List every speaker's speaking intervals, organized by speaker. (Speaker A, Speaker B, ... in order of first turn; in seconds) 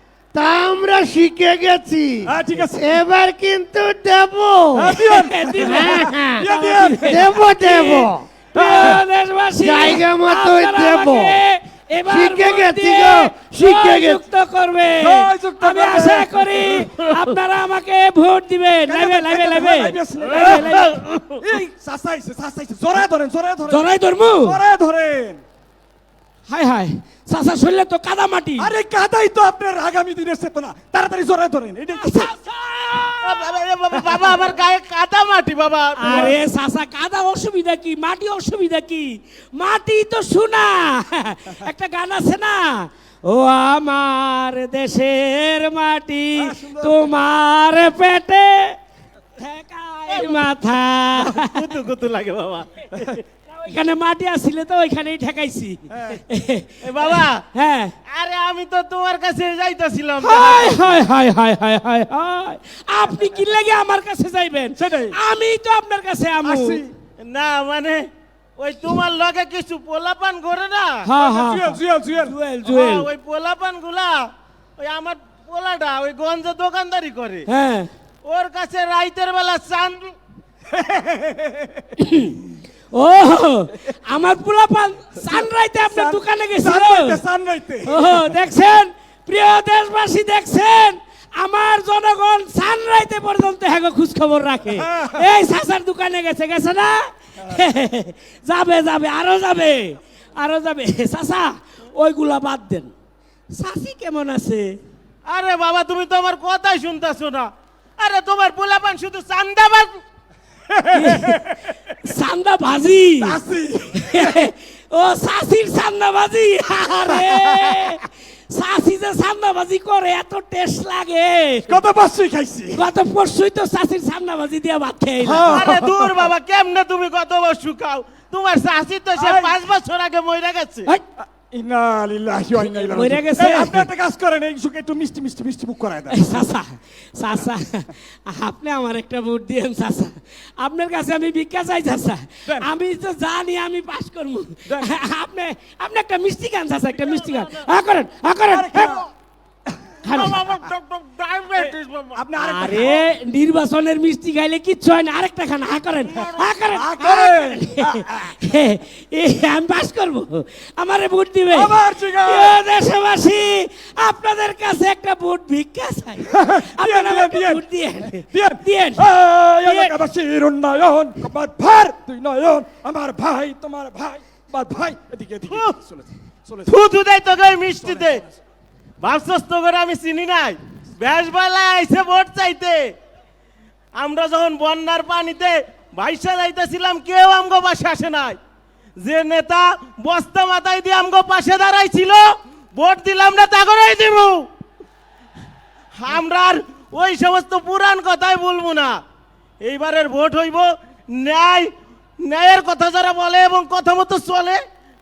Speaker A: 0.3-5.0, 5.6-6.5, 7.0-8.2, 9.6-11.4, 12.1-14.2
Speaker B: 2.2-2.9, 4.8-7.2, 8.5-9.0, 15.0-16.4, 18.9-20.9, 21.4-23.9, 24.4-25.4, 28.6-32.3, 46.4-47.0, 55.9-56.2, 64.8-65.1, 66.4-66.9, 71.2-72.3, 80.9-81.7, 85.9-88.2, 94.8-95.2, 110.7-111.6, 113.2-114.4, 117.0-117.9, 121.7-122.8, 125.2-126.2, 129.2-129.6, 131.2-136.2, 148.5-149.1, 151.6-153.0, 156.7-158.4, 161.5-162.6, 166.3-167.6, 168.2-176.7, 177.8-178.2
Speaker C: 5.2-21.0, 23.7-24.6, 26.5-28.7, 32.0-33.4, 36.0-48.8, 49.4-51.5, 53.6-56.8, 57.5-57.9, 60.2-66.8, 71.0-73.0, 77.5-77.9, 82.0-82.4, 82.9-87.2, 87.8-102.9, 103.5-104.8, 110.9-113.3, 113.9-121.7, 122.7-125.5, 132.6-133.9, 136.1-148.9, 150.0-150.4, 152.4-169.1, 169.7-169.9
Speaker D: 20.7-21.3, 33.2-36.4, 50.1-50.4, 51.2-53.2, 56.8-57.4, 58.1-60.8, 67.2-68.1, 68.6-71.0, 72.6-77.5, 78.2-80.1, 105.2-110.0, 125.5-130.9, 147.0-147.6, 150.1-153.0, 156.1-156.5, 175.5-175.7, 176.7-178.2, 179.0-182.9, 183.9-188.4, 189.0-194.4, 196.0-199.0, 199.6-201.7, 202.2-204.6